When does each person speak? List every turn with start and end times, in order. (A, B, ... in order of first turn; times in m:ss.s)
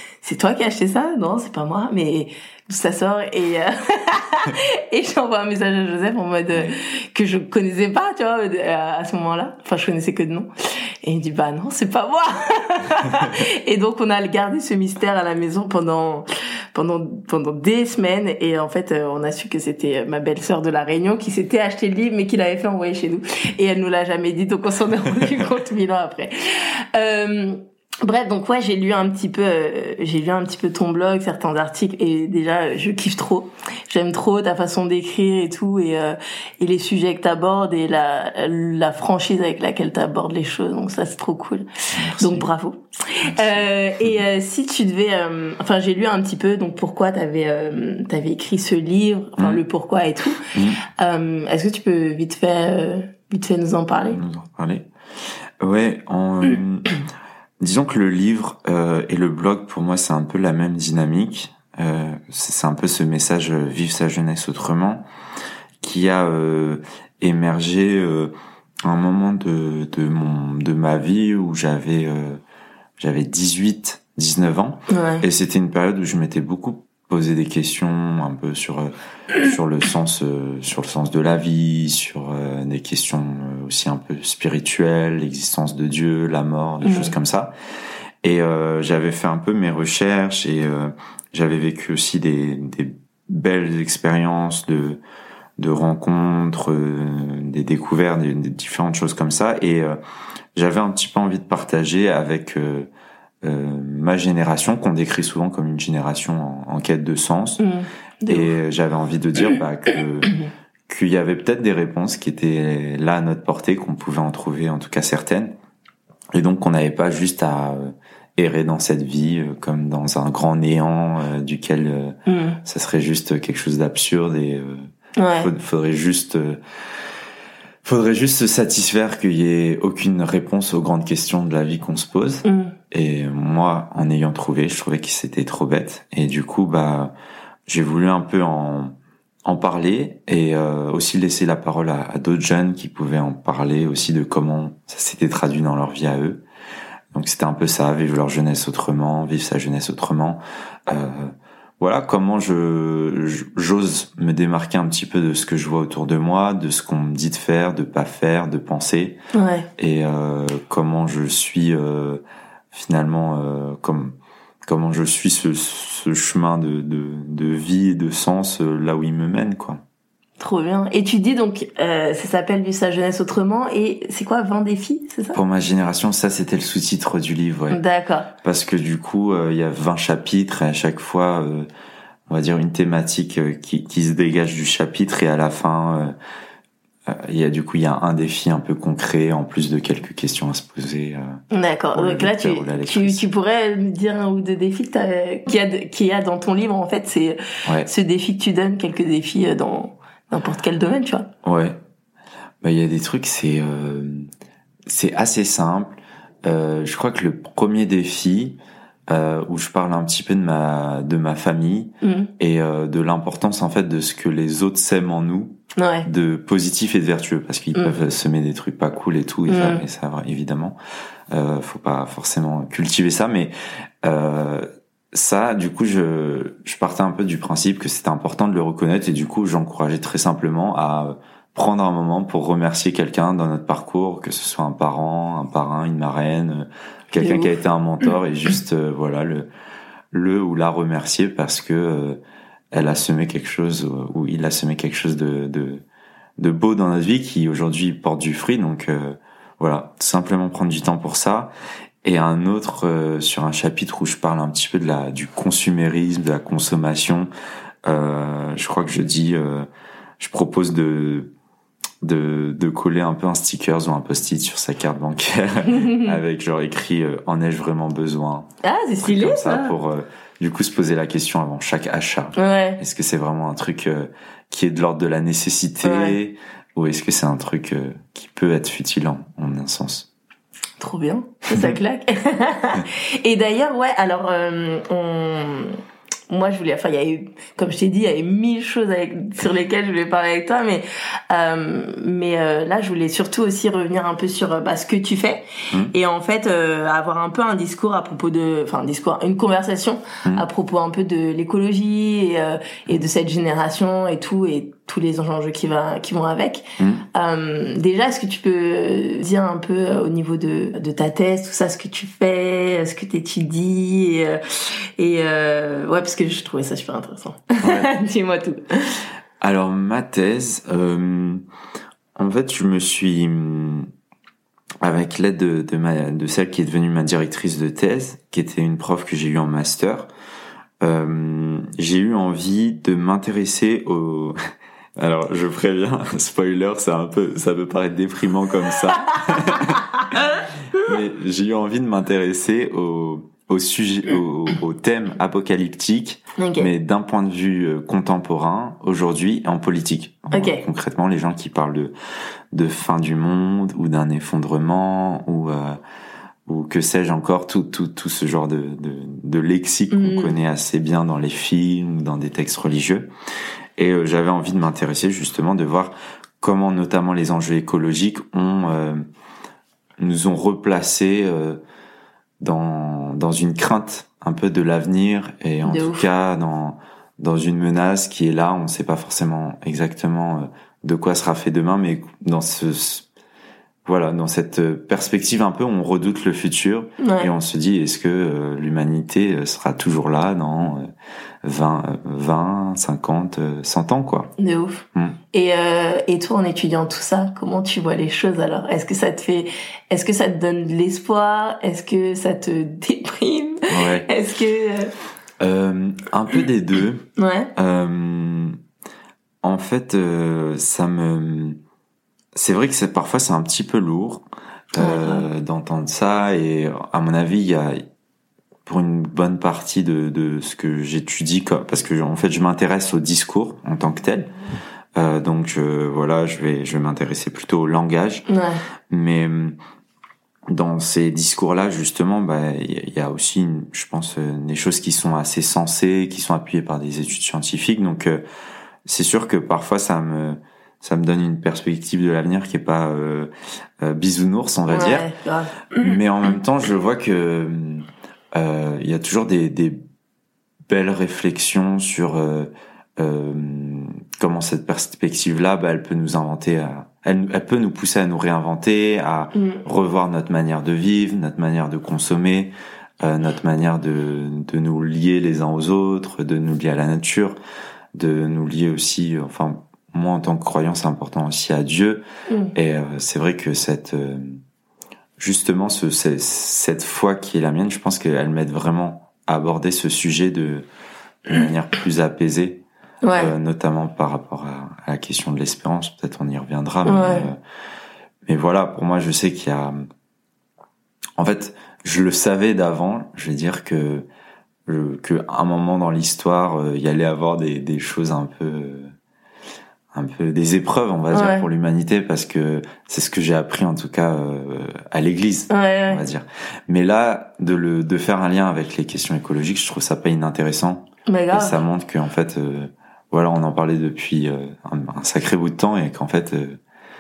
0:00.2-0:10.5 A
0:11.0-0:50.4 A
0:41.9-0:42.4 B
0:43.2-0:44.2 B
0:50.5-0:50.8 B
0:51.0-0:54.2 A
0:54.1-0:54.9 B
0:55.6-0:56.9 B
0:57.6-1:05.0 B
1:05.8-1:08.3 B
1:08.8-1:12.4 B
1:13.0-1:27.5 B
1:14.9-1:15.2 A
1:26.8-1:27.1 A
1:28.2-1:35.0 B
1:35.6-1:40.0 B
1:40.5-1:42.9 B
1:43.4-1:47.6 B
1:47.6-1:48.5 A
1:48.3-1:55.5 B
1:56.3-2:06.6 B
2:02.3-2:02.6 A
2:05.2-2:05.5 A
2:07.8-2:17.1 B
2:12.4-2:12.7 A
2:17.7-2:18.9 B
2:19.4-2:26.4 B
2:27.1-2:39.2 B
2:39.3-2:39.7 A
2:39.8-2:44.1 B
2:44.6-2:49.8 B
2:50.4-2:55.4 A
2:55.3-2:57.8 B
2:57.7-2:58.3 A
2:58.4-3:01.7 B
3:02.3-3:06.1 B
3:07.0-3:11.4 B
3:11.5-3:21.3 A
3:11.9-3:13.2 B
3:21.4-3:21.8 B
3:22.6-3:24.3 B
3:24.8-3:40.8 B
3:32.0-3:32.3 A
3:35.8-3:36.1 A
3:39.5-3:39.8 A
3:41.3-3:59.5 B
3:57.2-3:57.5 A
4:00.1-4:02.2 B
4:02.7-4:05.8 B
4:06.4-4:11.5 B
4:12.0-4:17.3 B
4:17.8-4:19.7 B
4:20.2-4:21.3 B
4:22.0-4:28.5 B
4:25.7-4:26.2 A
4:28.6-4:29.7 A
4:29.0-4:40.1 B
4:32.4-4:32.8 A
4:35.8-4:36.2 A
4:40.8-5:19.0 A
5:17.6-5:17.9 B
5:19.4-5:21.4 B
5:22.2-5:23.9 B
5:24.8-5:30.1 B
5:30.8-5:34.4 B
5:35.0-5:40.0 B
5:40.7-5:51.9 B
5:46.4-5:46.7 A
5:50.3-5:50.6 A
5:52.5-5:55.8 B
5:56.4-6:03.1 B
5:59.9-6:00.4 A
6:03.8-6:09.0 B
6:10.0-6:11.6 B
6:12.4-6:23.1 B
6:15.6-6:16.0 A
6:23.8-6:30.9 B
6:27.0-6:27.3 A
6:31.4-6:34.3 B
6:34.4-6:44.9 A
6:43.7-6:44.1 B
6:45.4-6:48.6 B
6:47.2-6:47.5 A
6:49.4-6:51.6 B
6:52.3-6:57.8 B
6:54.8-6:55.3 A
6:58.6-7:04.3 B
7:05.0-7:08.2 B
7:08.3-7:08.6 A
7:08.9-7:09.5 B
7:10.5-7:18.2 B
7:18.8-7:23.3 B
7:23.8-7:25.1 B
7:24.7-7:26.0 A
7:25.8-7:29.8 B
7:30.7-7:47.4 B
7:39.3-7:39.6 A
7:47.9-7:52.0 B
7:52.3-7:52.5 A
7:52.5-7:54.4 B
7:55.2-8:00.6 B
8:01.2-8:02.6 B
8:03.0-8:03.3 A
8:03.1-8:07.4 B
8:06.8-8:07.3 A
8:08.2-8:09.8 B
8:11.2-8:14.0 B
8:14.6-8:18.9 B
8:19.9-8:36.6 B
8:21.1-8:21.5 A
8:25.5-8:26.0 A
8:31.1-8:31.6 A